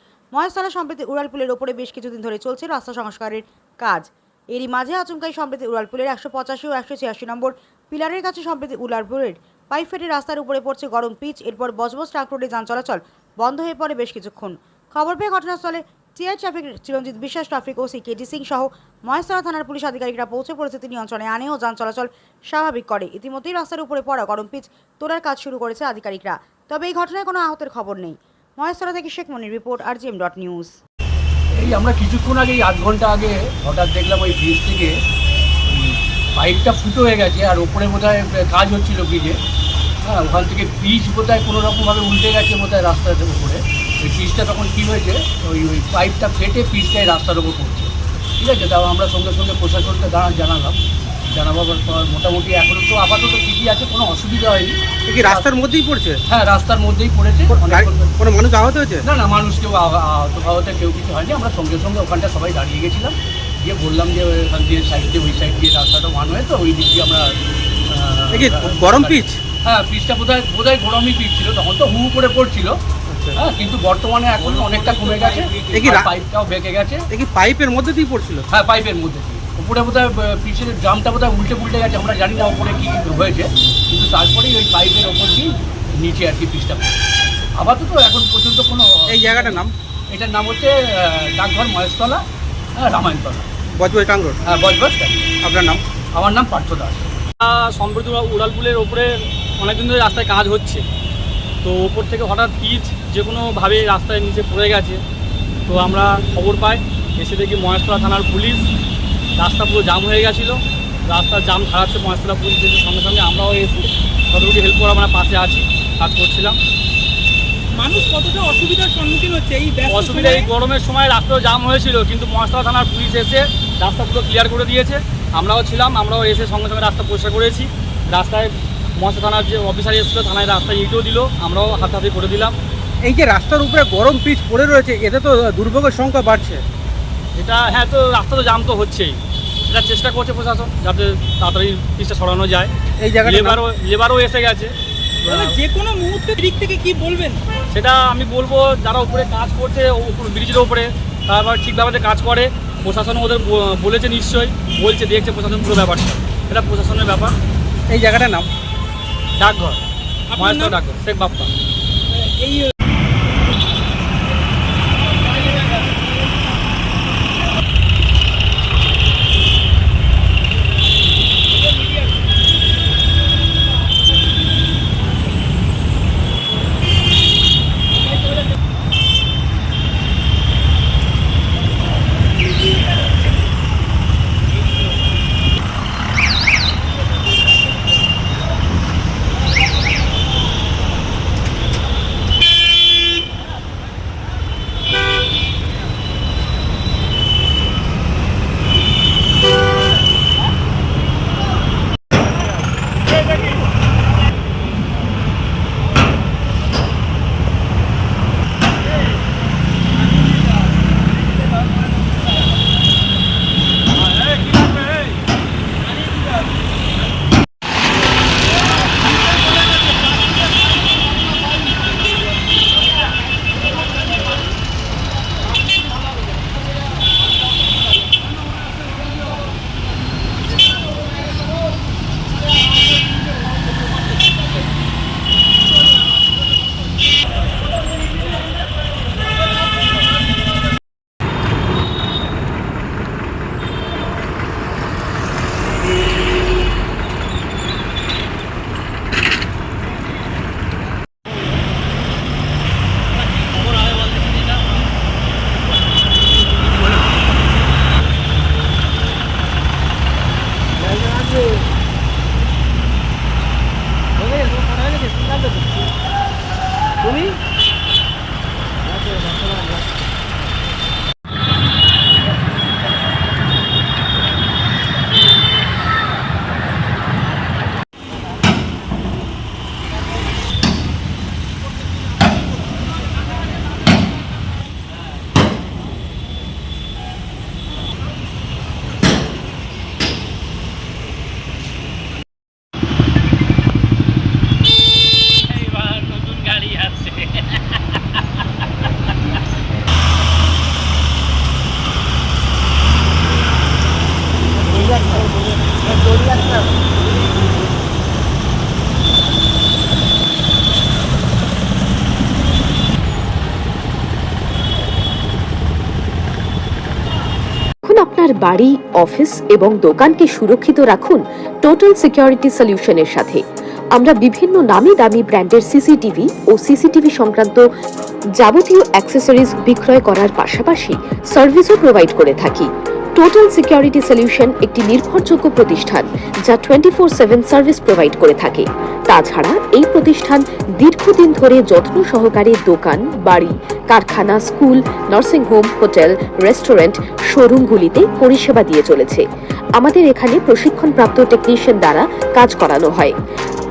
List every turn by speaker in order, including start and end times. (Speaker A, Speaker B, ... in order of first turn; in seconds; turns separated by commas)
Speaker A: 0.3-30.8, Speaker B: 31.6-35.0, Speaker B: 35.7-39.4, Speaker B: 40.0-50.8, Speaker B: 51.3-55.5, Speaker C: 55.1-56.2, Speaker B: 56.3-58.1, Speaker C: 57.5-59.0, Speaker B: 59.0-67.3, Speaker B: 67.9-72.7, Speaker C: 68.3-69.4, Speaker C: 73.1-73.4, Speaker B: 73.3-77.0, Speaker D: 74.4-75.6, Speaker C: 75.7-76.1, Speaker C: 77.1-78.4, Speaker B: 78.5-87.0, Speaker B: 87.5-92.2, Speaker C: 89.1-89.7, Speaker B: 92.8-93.5, Speaker C: 93.8-94.4, Speaker B: 94.5-95.4, Speaker C: 95.4-95.8, Speaker B: 96.1-97.1, Speaker D: 97.4-99.1, Speaker D: 99.6-100.8, Speaker D: 101.6-105.0, Speaker D: 105.7-108.6, Speaker D: 109.4-116.6, Speaker E: 117.7-120.5, Speaker D: 119.9-132.6, Speaker C: 133.0-136.7, Speaker D: 137.4-139.2, Speaker D: 139.7-142.7, Speaker C: 143.0-143.6, Speaker D: 143.2-144.7, Speaker E: 145.2-147.4, Speaker D: 147.7-157.4, Speaker C: 157.9-158.5, Speaker D: 159.4-159.8, Speaker E: 160.3-160.8, Speaker D: 160.4-161.5, Speaker E: 162.1-162.7, Speaker E: 165.3-166.1, Speaker E: 171.6-172.1, Speaker D: 253.9-254.5, Speaker F: 317.9-323.4, Speaker F: 323.9-327.6, Speaker F: 328.4-349.2, Speaker F: 349.8-353.1